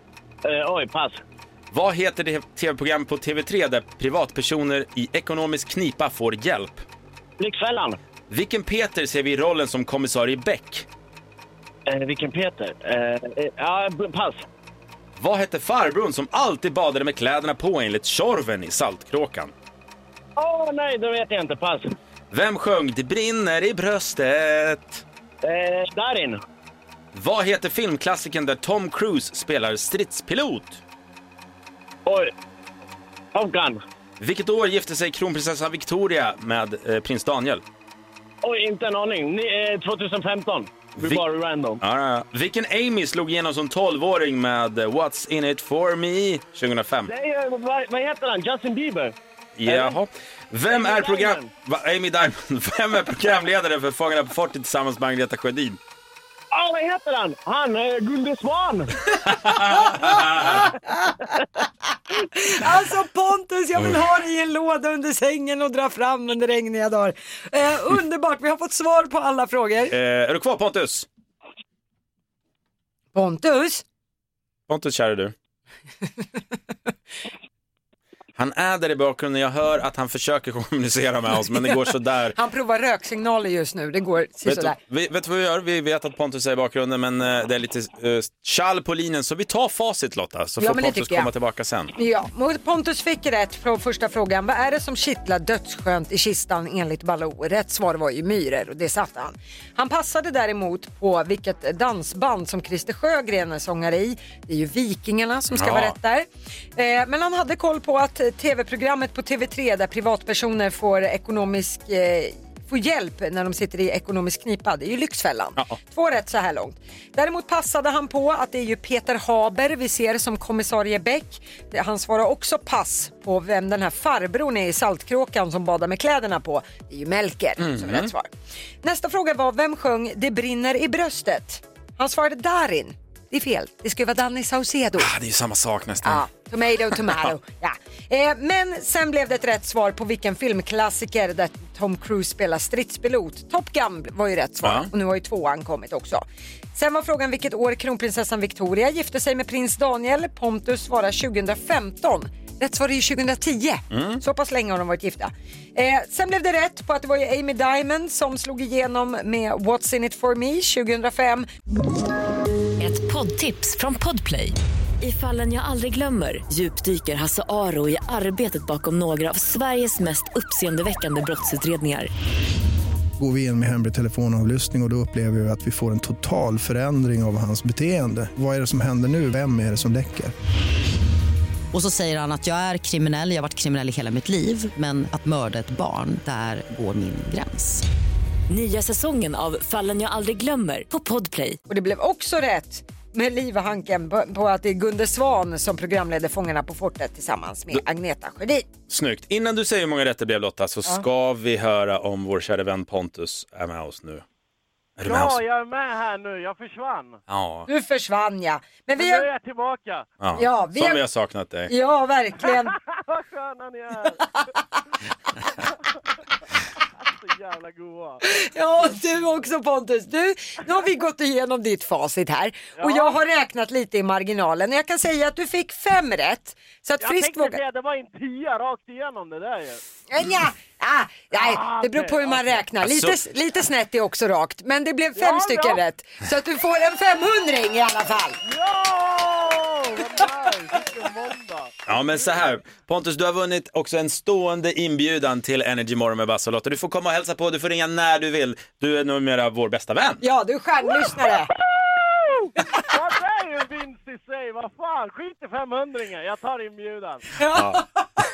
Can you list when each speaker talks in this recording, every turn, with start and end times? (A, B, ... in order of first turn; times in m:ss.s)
0:00.4-0:01.2 A
0:01.7-0:06.8 B
0:07.4-0:08.0 A
0:08.3-0:10.9 B
0:11.9-0:14.5 A
0:15.2-0:19.5 B
0:20.4-0:22.0 A
0:22.3-0:25.0 B
0:25.4-0:26.4 A
0:27.1-0:30.8 B
0:32.1-0:32.3 A
0:33.3-0:33.8 A
0:34.2-0:37.6 B
0:38.4-0:41.8 A
0:41.0-0:41.2 B
0:41.8-0:47.1 B
0:47.1-0:49.1 A
0:49.6-0:55.8 B
0:49.7-0:50.0 A
0:50.7-0:51.5 A
0:56.5-0:58.9 A
0:59.2-1:00.7 B
1:00.1-1:01.2 C
1:02.3-1:09.9 C
1:09.9-1:11.1 B
1:13.1-1:13.8 C
1:14.7-1:15.3 B
1:18.4-1:22.4 B
1:22.4-1:24.8 C
1:24.4-1:32.0 B
1:30.6-1:31.3 C
1:32.0-2:08.3 C
1:45.5-1:46.0 B
2:07.6-2:08.1 B
2:08.8-2:15.1 C
2:15.0-2:16.3 B
2:16.0-2:26.2 C
2:24.6-2:24.9 B
2:26.8-2:41.5 C
2:33.9-2:34.2 B
2:42.8-2:52.1 D
2:53.2-3:00.3 E
3:01.7-3:07.8 F
3:08.5-3:11.6 D
3:11.7-3:18.7 C
3:18.9-3:24.2 B
3:25.0-3:25.4 B
3:25.0-3:27.2 A
3:27.3-3:27.7 B
3:27.7-3:29.3 C
3:29.0-3:30.1 A
3:30.2-3:31.7 B
3:30.4-3:31.0 C
3:31.7-3:32.8 C
3:32.4-3:34.4 A
3:37.0-3:38.2 A
3:38.2-3:47.6 C
3:42.8-3:43.2 A
3:47.0-3:49.8 A
3:50.1-3:58.4 C
3:51.3-3:52.6 A
3:52.8-3:53.2 B
3:55.2-3:55.8 A
3:58.4-4:02.5 A
4:01.9-4:10.2 B
4:10.2-4:11.5 C
4:11.1-4:17.3 A
4:17.4-4:17.8 C
4:17.5-4:17.8 B